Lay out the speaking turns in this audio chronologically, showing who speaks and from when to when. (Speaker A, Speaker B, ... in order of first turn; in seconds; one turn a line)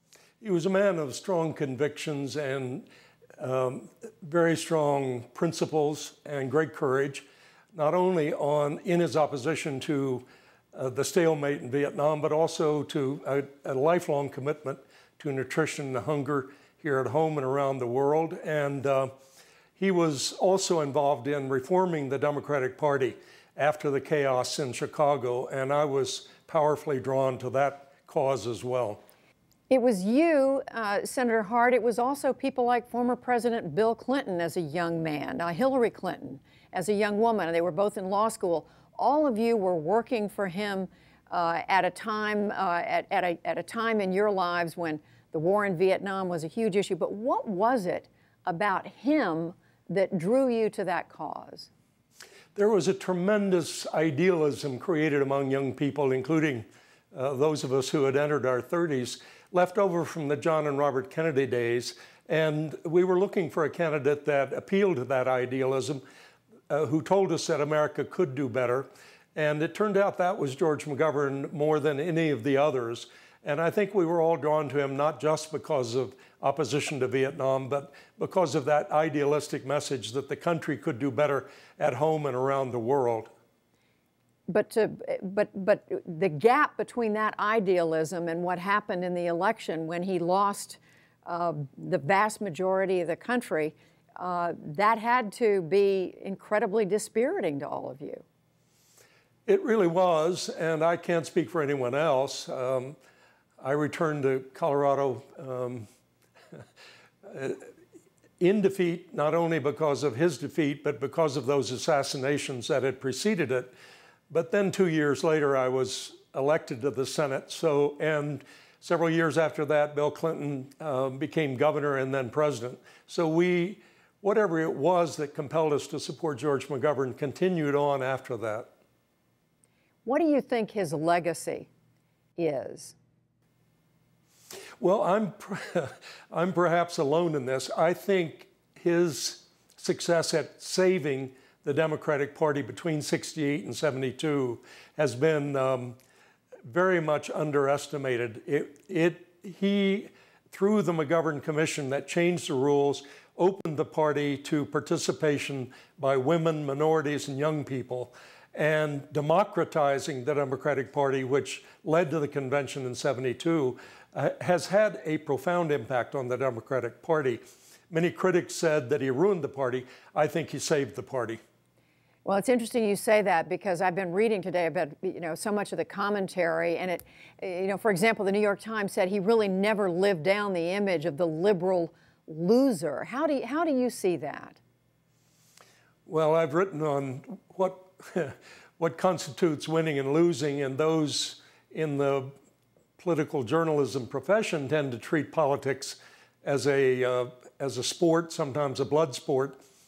Speaker A: 0.4-2.9
Speaker A: 3.4-19.1
Speaker A: 19.8-29.0
Speaker B: 29.7-51.7
Speaker A: 52.5-66.0
Speaker A: 66.7-83.3
Speaker B: 84.5-98.2
Speaker A: 99.5-103.0
Speaker A: 103.6-105.9
Speaker A: 107.2-107.6
Speaker A: 108.4-113.7
Speaker A: 114.3-128.7
Speaker B: 130.1-131.7
Speaker B: 132.4-133.0
Speaker A: 134.8-146.0
Speaker A: 146.7-171.4
Speaker B: 172.2-184.6
Speaker A: 186.1-192.3
Speaker A: 193.0-199.6